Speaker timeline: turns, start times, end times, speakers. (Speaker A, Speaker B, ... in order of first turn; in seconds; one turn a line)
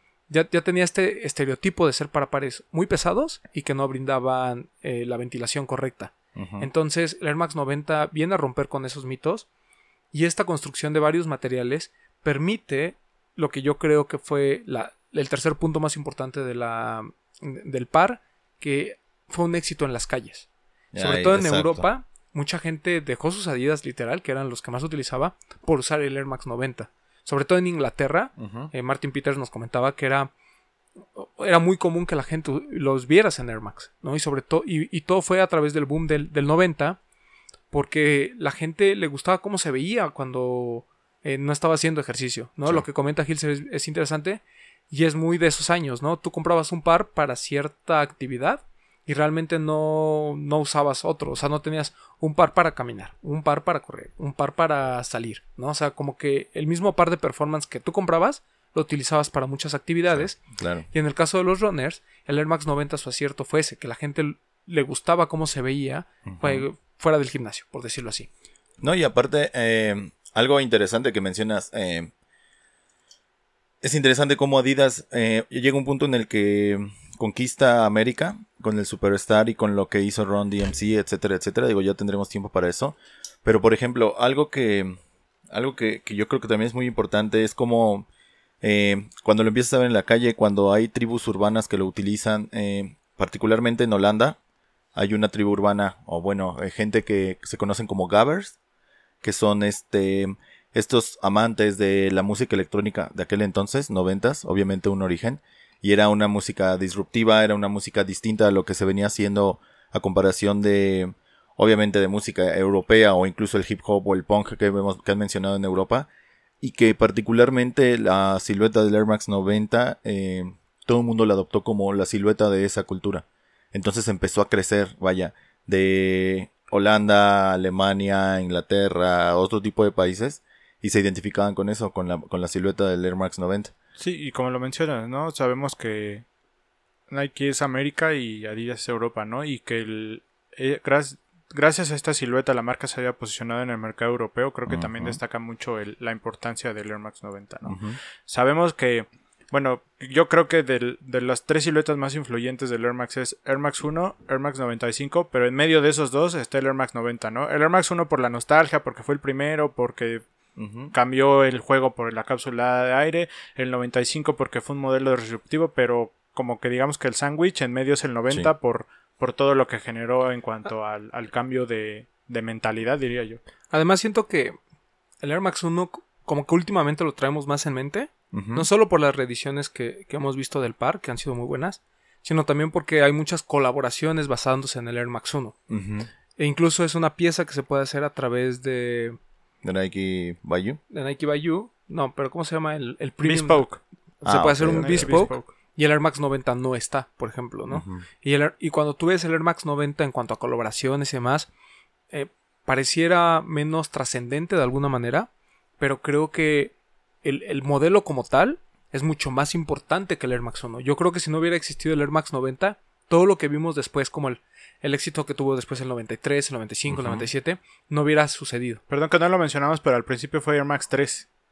Speaker A: 0.3-9.5
Speaker B: 6.3-6.7
Speaker A: 10.1-30.3
Speaker B: 20.9-21.8
Speaker B: 28.4-28.7
Speaker A: 31.1-37.0
Speaker A: 37.7-68.3
Speaker B: 60.1-60.9
Speaker B: 66.3-66.6
Speaker B: 68.8-72.1
Speaker B: 73.8-85.0
Speaker B: 85.5-88.1
Speaker B: 88.6-94.4
Speaker B: 94.9-98.5
Speaker B: 99.2-116.1
Speaker B: 116.6-133.7
Speaker C: 134.0-136.2
Speaker C: 137.1-160.2
Speaker B: 144.7-145.2
Speaker B: 147.7-148.0
Speaker B: 160.6-160.9
Speaker C: 160.9-173.4
Speaker A: 173.7-174.6
Speaker A: 175.2-185.5
Speaker B: 178.3-178.7
Speaker B: 185.7-186.1
Speaker A: 186.3-189.2
Speaker B: 189.6-190.8
Speaker A: 190.9-193.7
Speaker C: 193.2-193.8
Speaker A: 194.2-201.5
Speaker B: 194.2-195.3
Speaker C: 194.6-195.5
Speaker B: 197.7-198.0
Speaker A: 202.1-205.3
Speaker A: 205.8-218.8
Speaker B: 216.9-217.2
Speaker C: 218.9-221.3